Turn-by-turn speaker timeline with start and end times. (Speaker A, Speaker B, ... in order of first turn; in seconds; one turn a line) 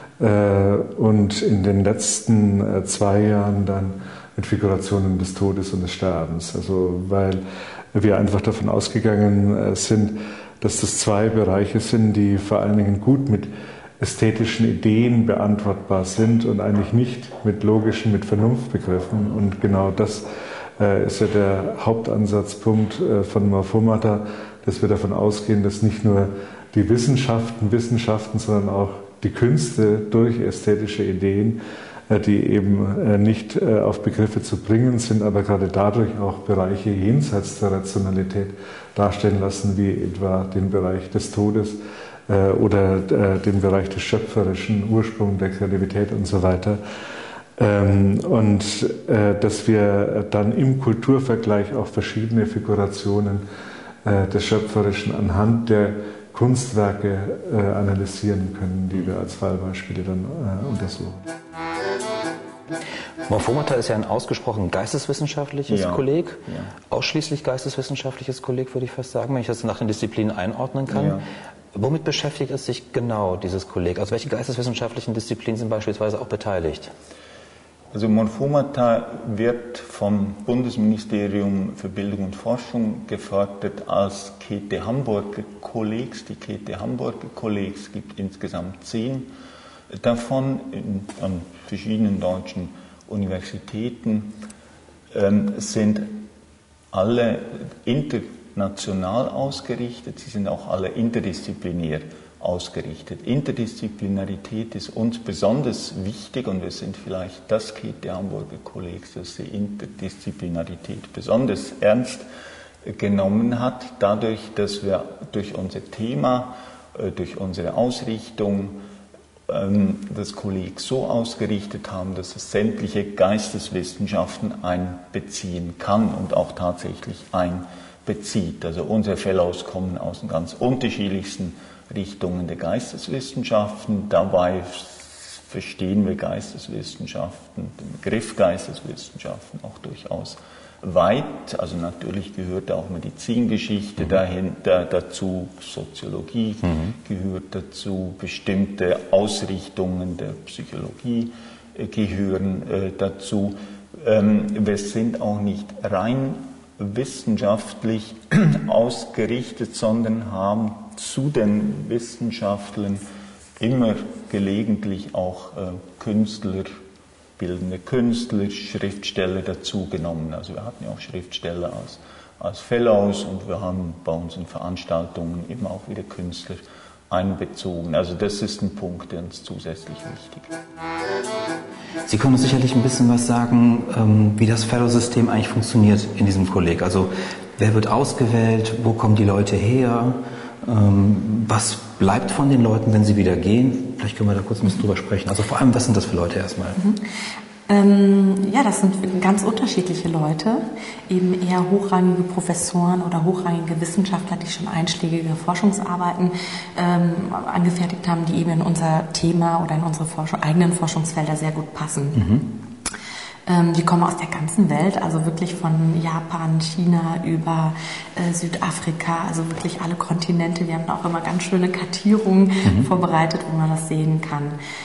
Speaker A: 0.2-20.2
Speaker A: 20.8-46.8
Speaker A: 47.6-53.4
Speaker A: 54.0-61.2
Speaker B: 63.3-71.2
Speaker C: 65.7-66.7
Speaker C: 70.9-71.2
Speaker B: 71.7-76.9
Speaker C: 77.9-89.3
Speaker C: 89.9-94.3
Speaker C: 95.1-96.2
Speaker C: 96.9-112.3
Speaker C: 112.8-118.8
Speaker C: 119.5-163.0
Speaker C: 163.6-166.7
Speaker C: 167.4-180.5
Speaker B: 182.1-196.8
Speaker D: 197.7-212.3
Speaker B: 212.2-212.5
Speaker D: 213.5-224.6